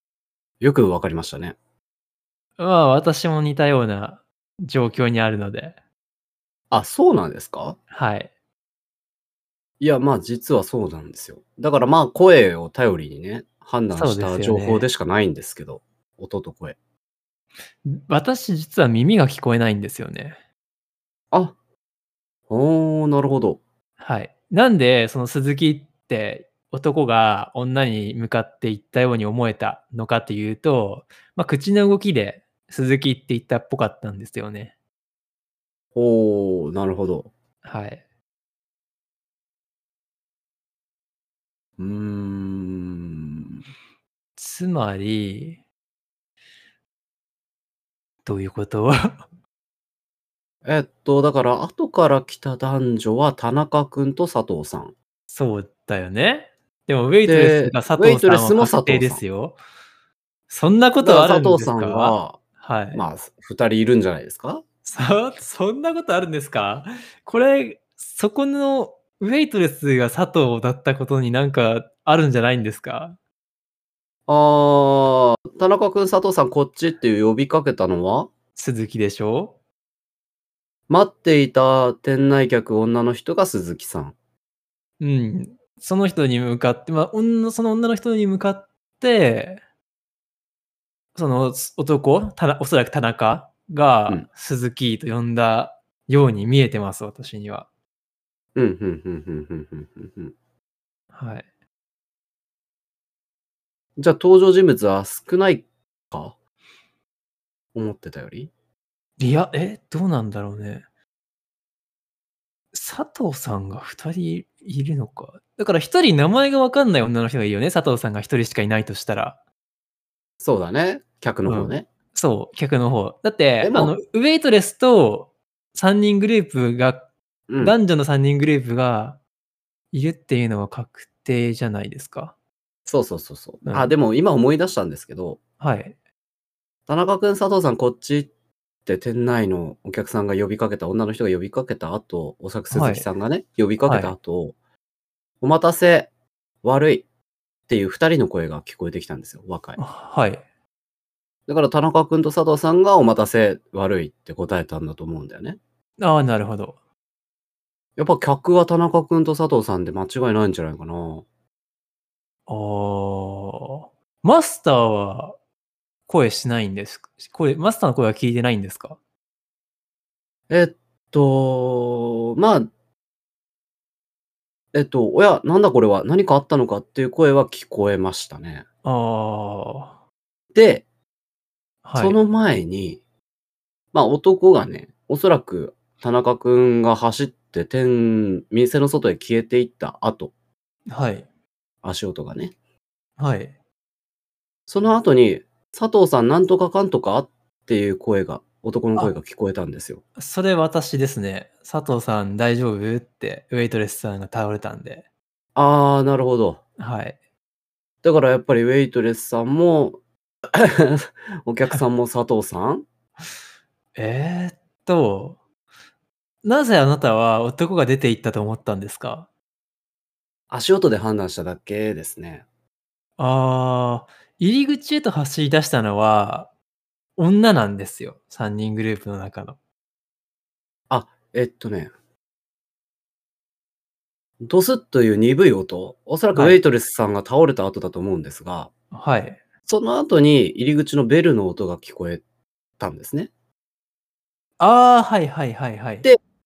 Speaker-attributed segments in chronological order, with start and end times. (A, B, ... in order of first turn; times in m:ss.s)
0:00.6-0:01.6 A
0:02.6-0:05.8 B
0:06.7-0:07.8 A
0:07.9-0:08.3 B
0:09.8-0:16.8 A
0:13.9-0:14.9 B
0:17.8-0:20.4 B
0:22.5-0:23.6 A
0:24.0-0:34.7 B
0:36.0-0:37.3 A
0:37.6-0:38.0 B
0:41.8-0:43.6 A
0:44.4-0:45.6 B
0:48.2-0:49.2 B
0:50.6-0:54.9 A
0:55.3-0:59.6 B
0:57.3-0:59.2 A
1:00.5-1:03.0 B
1:01.0-1:02.4 A
1:02.9-1:04.6 A
1:04.8-1:13.2 B
1:14.3-1:18.3 A
1:18.6-1:19.6 B
1:20.9-1:24.2 A
1:25.0-1:29.6 B
1:31.2-1:37.7 B
1:38.6-1:40.3 A
1:41.1-1:41.5 B
1:44.0-1:46.4 A
1:47.8-1:48.5 A
1:49.2-1:50.8 B
1:52.7-1:59.4 B
2:00.4-2:01.9 A
2:01.5-2:07.1 B
2:03.6-2:03.9 A
2:07.5-2:07.8 A
2:07.6-2:09.2 B
2:09.9-2:12.4 B
2:12.9-2:15.4 A
2:13.7-2:13.9 B
2:15.6-2:16.0 B
2:16.9-2:18.3 A
2:18.9-2:24.6 A
2:22.7-2:23.1 B
2:23.9-2:24.1 B
2:25.4-2:26.1 A
2:26.6-2:27.0 A
2:27.7-2:29.8 A
2:29.8-2:30.4 B
2:31.5-2:35.6 A
2:36.0-2:36.8 B
2:38.0-2:41.2 A
2:42.5-2:45.4 B
2:46.1-2:49.0 B
2:50.5-2:52.7 A
2:54.7-2:58.6 A
2:58.8-3:00.0 B
3:00.6-3:00.8 A
3:01.8-3:02.2 B
3:02.0-3:03.0 A
3:03.9-3:10.3 A
3:10.9-3:11.3 B
3:11.8-3:12.6 A
3:13.2-3:13.5 B
3:14.7-3:20.0 A
3:20.2-3:25.0 B
3:25.6-3:26.6 A
3:26.8-3:27.2 B
3:28.0-3:30.0 A
3:30.5-3:32.9 A
3:34.0-3:35.4 B
3:36.4-3:39.3 B
3:40.5-3:42.4 A
3:43.2-3:46.5 B
3:47.2-3:49.6 B
3:50.9-3:51.9 A
3:54.4-3:58.7 A
3:58.9-3:59.4 B
3:59.7-4:02.2 A
4:02.8-4:03.3 A
4:04.6-4:06.1 B